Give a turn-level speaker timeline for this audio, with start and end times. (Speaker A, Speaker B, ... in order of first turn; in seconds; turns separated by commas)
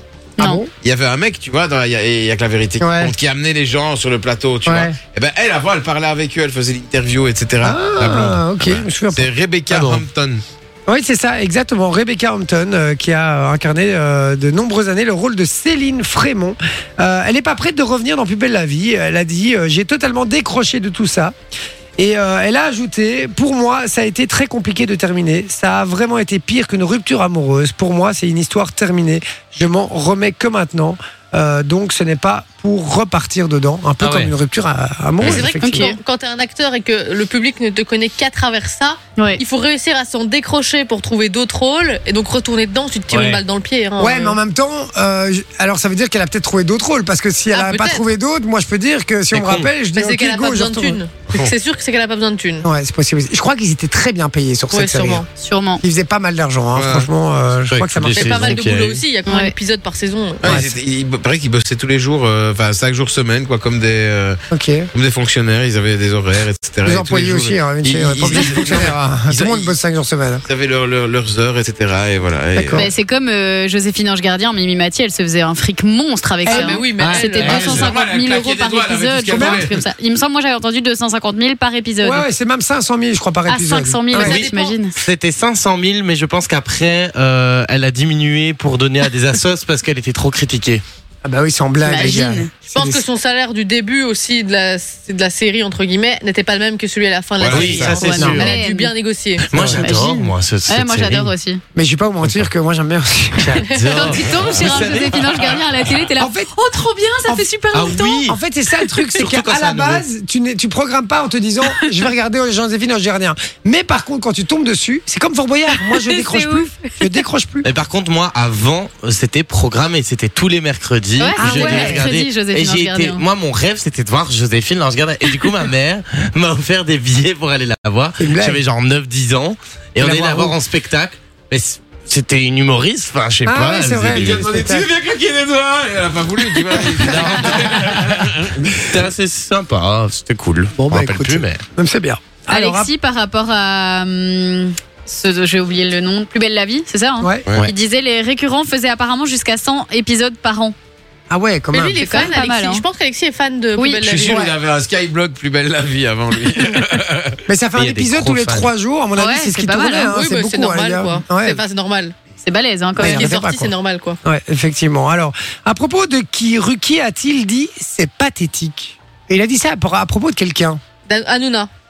Speaker A: 0.4-0.7, Speaker B: 0.4-0.7, Speaker C: 0.8-10.4, Speaker B: 2.8-3.1, Speaker B: 4.7-5.0, Speaker B: 7.6-9.3, Speaker D: 9.7-10.0, Speaker B: 10.9-21.4, Speaker B: 22.0-35.9, Speaker D: 34.0-34.3, Speaker E: 35.2-44.4, Speaker A: 35.6-36.0, Speaker D: 43.1-43.4, Speaker B: 44.0-51.0, Speaker E: 47.5-48.0, Speaker D: 49.3-49.7, Speaker E: 50.0-52.7, Speaker B: 52.6-55.2, Speaker E: 54.7-55.3, Speaker A: 55.4-55.8, Speaker B: 55.8-58.6, Speaker C: 56.7-57.1, Speaker D: 57.7-59.0, Speaker E: 58.1-60.6, Speaker A: 59.3-59.5, Speaker C: 60.4-64.4, Speaker B: 60.4-60.7, Speaker B: 64.5-64.9, Speaker C: 64.9-69.7, Speaker B: 66.8-70.4, Speaker C: 70.5-72.9, Speaker B: 72.5-72.9, Speaker A: 72.7-82.2, Speaker B: 76.5-77.6, Speaker E: 76.5-77.9, Speaker C: 77.4-79.8, Speaker D: 77.5-77.7, Speaker B: 79.3-79.7, Speaker B: 82.0-84.4, Speaker A: 83.5-85.0, Speaker E: 84.2-84.8, Speaker D: 84.2-90.8, Speaker B: 91.2-93.0, Speaker A: 91.8-92.5, Speaker E: 92.7-99.5, Speaker C: 97.4-98.1, Speaker D: 97.5-98.5, Speaker A: 97.9-98.9, Speaker B: 98.2-98.4, Speaker D: 99.5-101.3, Speaker B: 99.5-99.8, Speaker A: 99.7-101.6, Speaker B: 101.8-103.7, Speaker D: 103.4-105.6, Speaker E: 103.7-104.1, Speaker A: 103.9-109.1, Speaker B: 106.2-106.5, Speaker B: 107.3-107.6, Speaker D: 107.7-108.4, Speaker B: 108.2-117.7, Speaker D: 109.2-110.0, Speaker A: 115.8-116.9, Speaker D: 117.6-134.5, Speaker A: 121.2-123.2, Speaker B: 121.4-122.1, Speaker B: 128.2-128.6, Speaker B: 130.0-130.6, Speaker B: 133.4-134.9, Speaker C: 134.0-138.8, Speaker D: 137.0-138.1, Speaker B: 137.1-137.5, Speaker D: 138.9-141.6, Speaker B: 140.8-142.9, Speaker A: 142.5-150.8, Speaker B: 147.2-147.5, Speaker B: 151.3-152.3, Speaker E: 151.7-154.5, Speaker A: 152.0-152.8, Speaker A: 153.8-154.0, Speaker C: 154.0-157.4, Speaker B: 157.5-161.6, Speaker D: 157.8-158.7, Speaker A: 159.2-160.1, Speaker E: 160.1-162.1, Speaker A: 162.4-163.3, Speaker B: 163.0-163.7, Speaker E: 163.0-164.2, Speaker B: 164.2-170.8, Speaker E: 171.1-171.7